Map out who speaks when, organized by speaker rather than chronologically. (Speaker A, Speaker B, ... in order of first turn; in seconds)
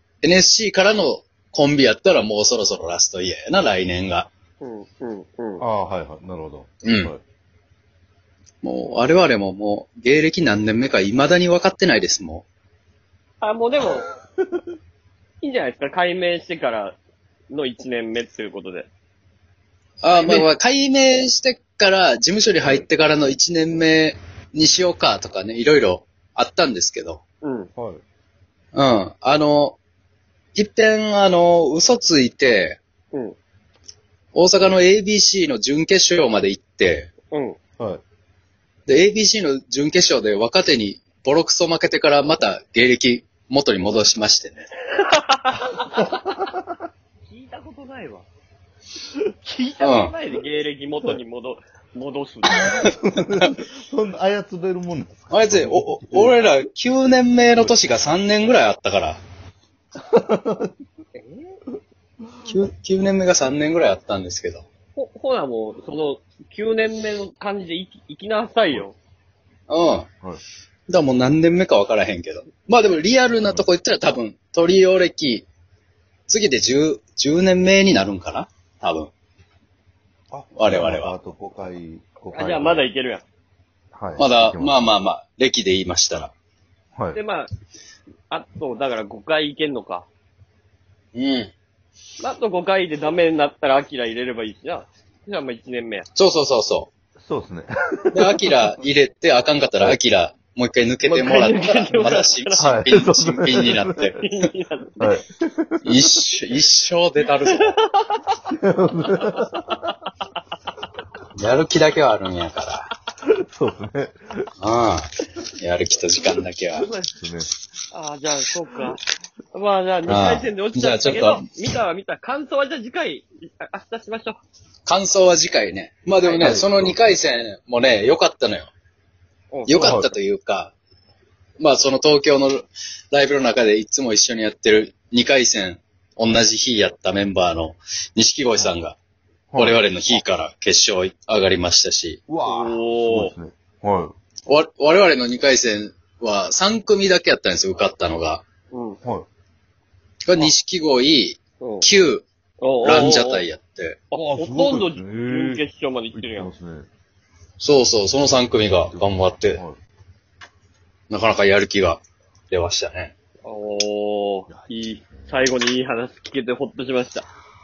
Speaker A: 0.2-4.3, 6.8-7.1, 8.6-12.4, 20.0-27.2, 28.7-29.8, 30.6-32.8, 34.3-37.1, 38.9-44.6, 49.8-50.1, 55.3-59.2, 62.4-64.6, 69.7-70.1, 70.9-75.5, 76.3-79.1, 80.5-81.1, 84.2-86.3, 91.1-91.5, 96.2-96.9, 98.1-104.2, 105.8-107.8, 111.4-112.9, 114.6-116.9, 120.1-121.5, 124.8-128.7, 129.7-130.7, 131.6-138.9, 139.6-142.2, 144.5-148.4, 150.2-152.2, 152.8-154.0, 157.6-159.6, 161.1-163.1
Speaker B: 4.6-5.6, 13.4-14.1, 15.4-17.0, 17.5-18.9, 20.1-20.5, 27.4-27.7, 37.3-37.6, 44.9-46.2, 47.3-48.2, 49.5-52.9, 61.1-61.6, 65.0-68.9, 82.3-83.2, 87.1-87.5, 88.3-90.1, 92.2-96.1, 101.0-102.8, 104.1-105.2, 107.6-108.3, 109.3-110.0, 117.9-119.0, 119.5-124.4, 126.2-126.5, 129.5-130.1, 142.4-143.3, 148.7-149.0, 151.6-151.9, 152.6-153.4, 154.1-156.5, 163.4-167.2
Speaker C: 5.6-7.2, 22.6-22.9, 27.7-28.0, 46.2-46.6, 52.8-56.4, 60.0-60.7, 73.3-73.7, 80.3-82.8, 83.9-84.8, 97.2-98.6, 102.6-104.1, 105.0-106.0, 108.5-109.9, 113.2-114.5, 116.9-117.5, 126.4-127.1, 129.7-130.1, 139.5-139.8, 142.3-144.1, 154.1-156.9, 158.6-159.8, 164.5-165.4